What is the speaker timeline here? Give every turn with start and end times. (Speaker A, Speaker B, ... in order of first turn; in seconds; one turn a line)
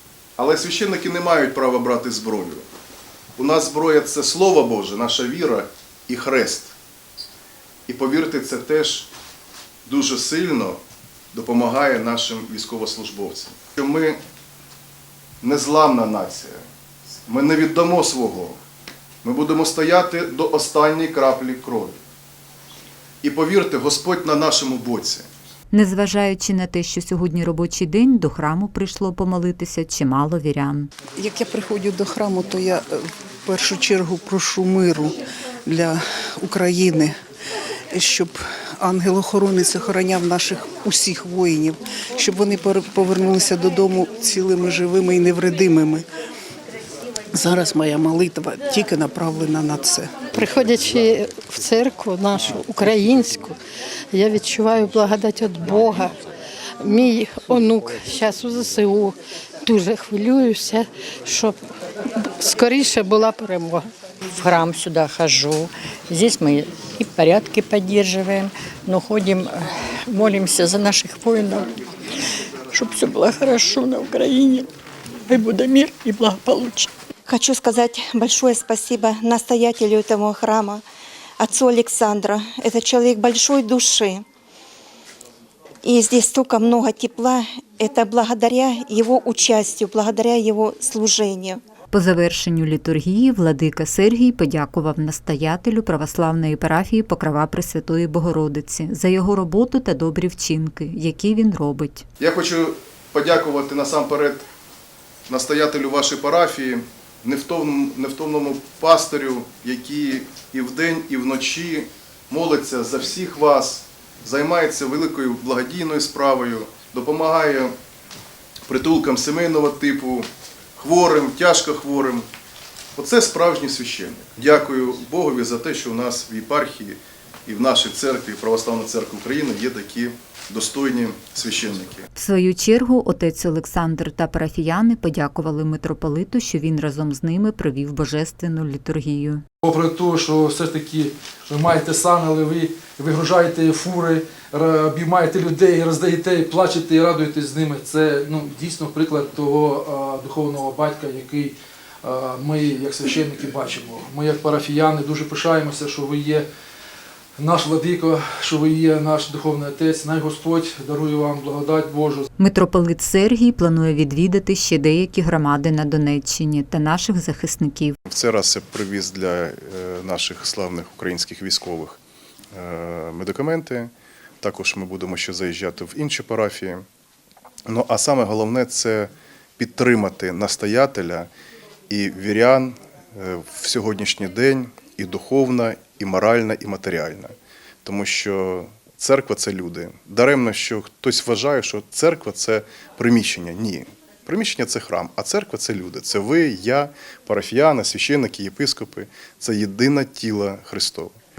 Speaker A: 0.4-2.6
Speaker A: 3.4-6.7
Speaker A: 7.9-9.1
Speaker A: 9.8-10.8
Speaker A: 11.3-14.2
Speaker A: 15.4-16.6
Speaker A: 17.3-18.6
Speaker A: 19.2-22.0
Speaker A: 23.2-25.3
Speaker B: 25.7-30.9
Speaker C: 31.2-35.1
Speaker C: 35.6-37.1
Speaker C: 37.9-46.0
Speaker C: 47.3-50.2
Speaker D: 50.3-53.6
Speaker D: 54.1-56.1
Speaker D: 56.8-61.6
Speaker D: 62.2-63.9
Speaker E: 64.3-71.7
Speaker E: 72.7-74.7
Speaker E: 75.3-76.9
Speaker F: 77.3-80.8
Speaker F: 81.4-84.2
Speaker F: 85.8-91.6
Speaker B: 91.9-102.0
Speaker A: 102.2-104.4
Speaker A: 105.3-117.7
Speaker A: 118.7-120.3
Speaker A: 120.8-122.2
Speaker A: 123.0-132.0
Speaker B: 132.1-139.4
Speaker G: 139.6-156.4
Speaker G: 157.4-162.3
Speaker B: 162.4-167.9
Speaker A: 168.1-172.0
Speaker A: 172.5-173.9
Speaker A: 174.4-176.8
Speaker A: 177.7-181.3
Speaker A: 181.9-187.3
Speaker A: 187.8-201.1